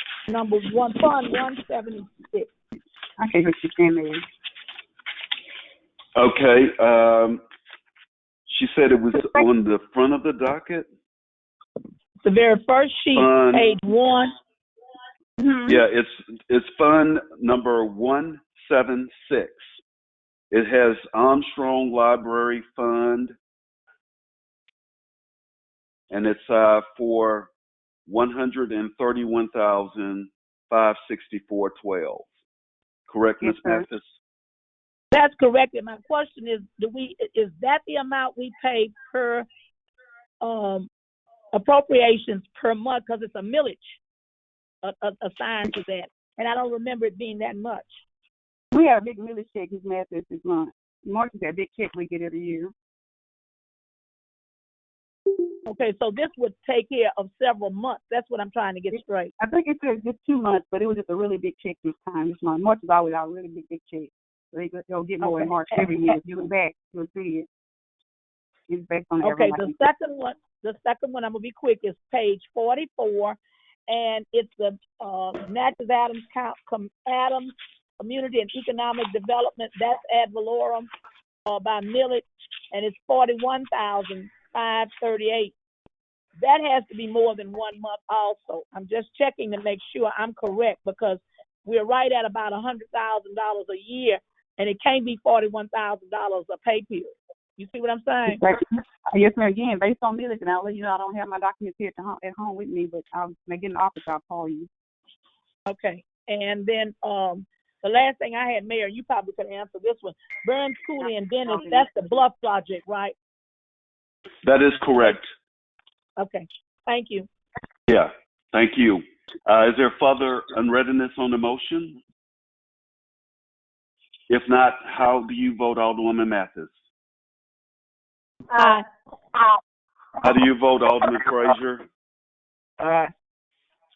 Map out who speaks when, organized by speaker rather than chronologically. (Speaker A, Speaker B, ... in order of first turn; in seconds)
Speaker A: 0.3-2.5, 12.2-14.3, 35.1-39.5, 40.4-40.9, 41.5-44.0, 44.8-47.9, 55.6-59.3, 65.2-66.2, 69.2-80.9, 81.5-85.5, 86.4-98.4, 105.7-113.1, 116.2-117.3, 128.5-128.8
Speaker B: 3.2-4.2, 33.4-33.8, 48.7-52.7, 58.9-67.5, 68.7-69.8, 98.3-104.7, 111.4-111.9
Speaker C: 6.2-7.4, 8.5-10.9, 13.1-13.8, 15.6-19.6, 20.5-23.3, 26.1-27.5, 28.1-32.3, 33.1-34.1, 114.4-115.3, 117.9-122.0, 124.3-126.7, 130.2-131.8